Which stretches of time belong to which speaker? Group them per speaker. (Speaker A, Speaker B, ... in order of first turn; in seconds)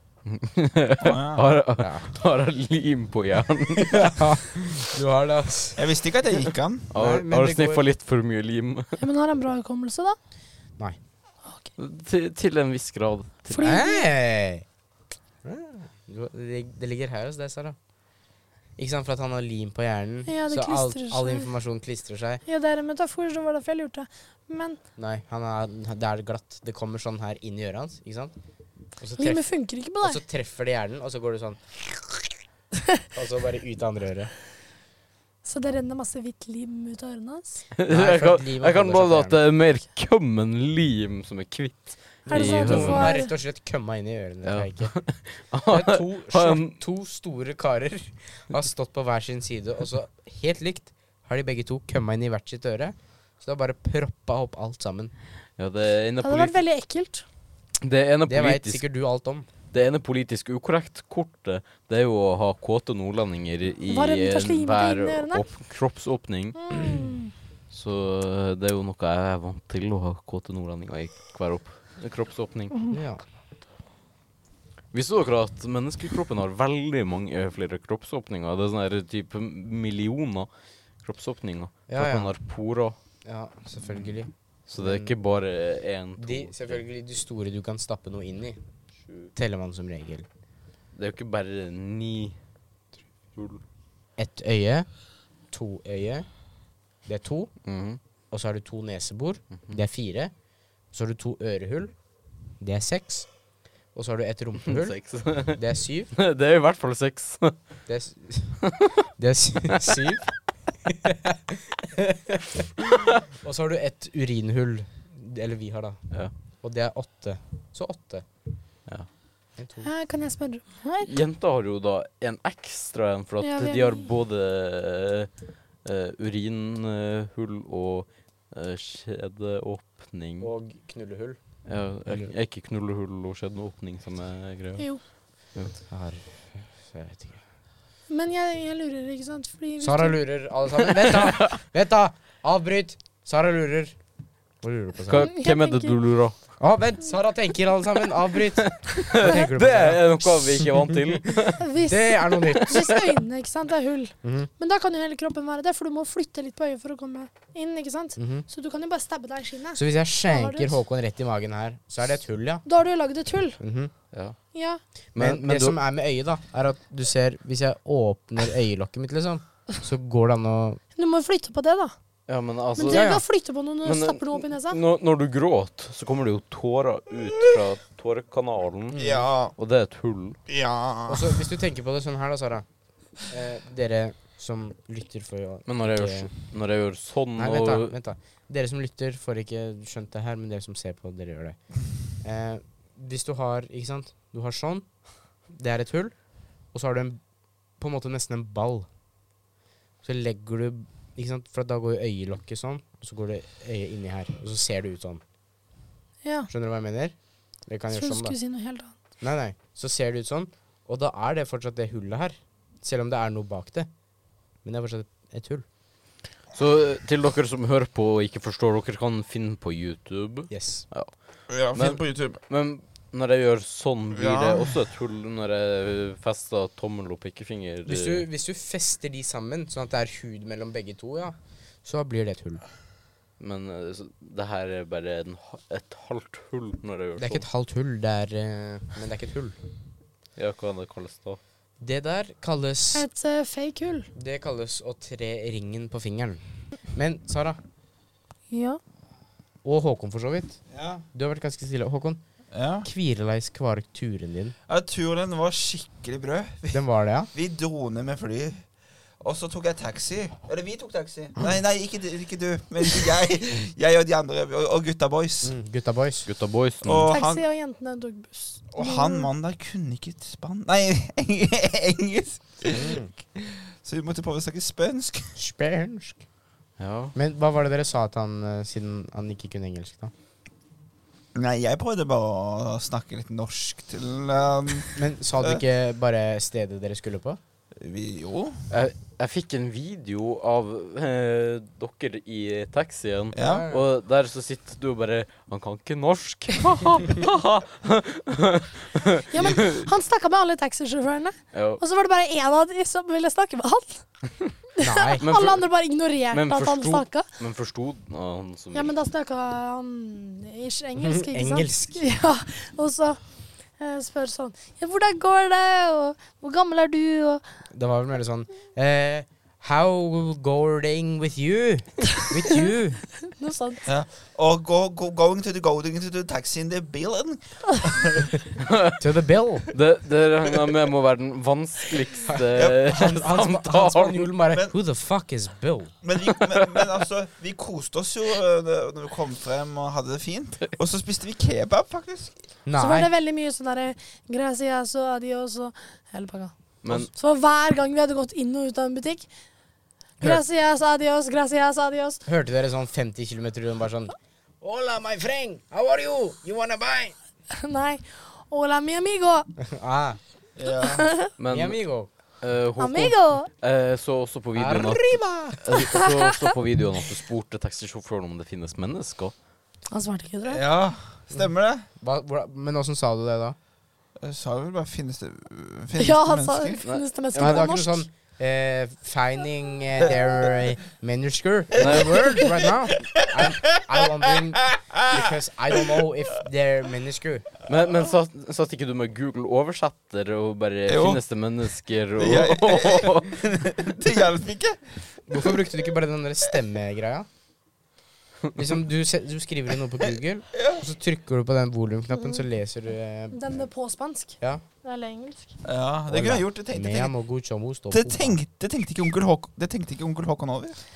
Speaker A: 0.3-4.3, 6.9-9.0, 11.8-13.7, 37.8-43.1, 44.5-46.8, 55.6-56.6, 57.8-58.8, 59.7-66.6, 67.7-72.7, 74.9-80.5, 81.0-83.0, 84.7-86.8, 90.9-92.4, 93.3-93.6, 97.7-98.0, 104.7-105.6, 106.1-107.6, 121.0-125.3, 125.8-130.5, 131.7-134.8, 140.8-141.6, 145.1-146.4, 148.6-151.7, 152.5-153.0, 164.1-164.4, 165.2-165.8, 172.3-173.1, 173.8-179.0, 179.6-180.4, 185.7-187.9, 216.6-221.1, 221.7-228.2, 233.4-237.5, 240.4-241.4, 266.3-267.1, 276.8-277.1, 288.7-299.9, 301.5-301.8, 305.2-305.6, 306.3-308.9, 328.6-329.0, 329.7-334.3, 336.5-336.8, 346.8-347.1, 361.4-361.8, 362.4-369.3, 376.8-377.7, 381.8-382.4, 387.7-393.4
Speaker B: 1.0-1.5, 5.8-6.9, 178.9-179.5, 180.5-181.4, 221.5-222.4, 224.1-224.8, 250.7-251.0, 252.5-252.9, 254.7-258.6, 259.2-265.5, 266.8-267.4, 268.7-275.3, 281.4-285.6, 287.8-288.6, 293.3-293.7, 323.9-328.4, 332.5-333.2, 336.0-342.4, 360.6-361.1, 370.5-371.9, 374.2-376.8, 381.9-383.8, 390.9-391.2, 392.2-395.7, 400.5-400.8, 405.6-407.1, 407.9-410.8
Speaker C: 1.8-2.1, 3.8-5.8, 6.9-7.8, 13.6-14.7, 15.4-17.8, 18.8-22.4, 25.0-28.3, 29.0-29.4, 30.0-32.3, 33.1-34.3, 37.9-39.4, 42.3-44.9, 45.7-55.1, 58.3-59.5, 72.9-73.2, 81.9-82.3, 83.2-85.1, 86.2-88.6, 89.3-90.3, 94.2-94.9, 95.5-96.3, 97.1-97.5, 98.3-100.3, 100.9-101.9, 102.6-103.3, 103.9-105.0, 105.6-106.1, 107.9-108.6, 109.2-110.2, 110.8-112.7, 113.3-116.0, 116.6-118.3, 119.6-119.9, 130.4-131.4, 135.9-137.4, 139.8-144.0, 144.6-145.3, 146.6-151.0, 151.9-152.8, 154.2-154.5, 158.2-158.4, 159.8-162.6, 163.6-163.9, 165.2-170.8, 172.9-173.2, 178.9-179.3, 181.1-182.7, 183.3-186.3, 187.4-191.6, 192.2-194.9, 195.5-196.2, 196.7-197.2, 197.8-198.9, 200.0-205.2, 206.5-207.2, 207.7-208.4, 209.2-213.9, 214.6-215.7, 220.5-220.8, 227.9-232.6, 237.2-239.6, 241.8-243.1, 244.1-247.6, 249.6-250.6, 251.1-252.2, 252.8-254.6, 256.7-257.3, 265.4-266.3, 272.7-273.1, 275.4-276.2, 277.1-280.1, 284.9-287.4, 293.4-293.8, 304.8-305.3, 311.0-312.1, 317.7-323.0, 329.0-329.7, 332.3-335.9, 342.7-343.1, 352.3-357.1, 359.6-360.2, 361.5-362.1, 364.6-365.9, 372.0-373.6, 377.3-387.5, 395.3-397.3, 398.6-403.4, 406.1-408.4
Speaker D: 9.0-10.2, 13.5-14.1, 20.3-21.5, 22.5-24.8, 29.2-30.2, 35.4-37.6, 42.3-43.3, 56.2-57.2, 63.9-65.4, 66.6-67.3, 72.7-73.0, 119.8-121.1, 123.4-124.1, 138.1-140.2, 145.1-146.0, 151.6-160.8, 162.7-163.6, 164.5-164.8, 171.0-171.9, 172.8-174.8, 206.2-206.5, 207.9-208.9, 242.9-244.1, 248.5-248.8, 267.1-269.3, 299.3-304.0, 304.8-307.3, 308.7-313.2, 313.8-317.4, 323.2-323.9, 342.8-349.3, 350.2-352.2, 357.5-359.5, 360.8-361.3, 362.8-363.5, 365.9-366.3, 369.9-370.6, 376.0-378.1, 403.3-405.6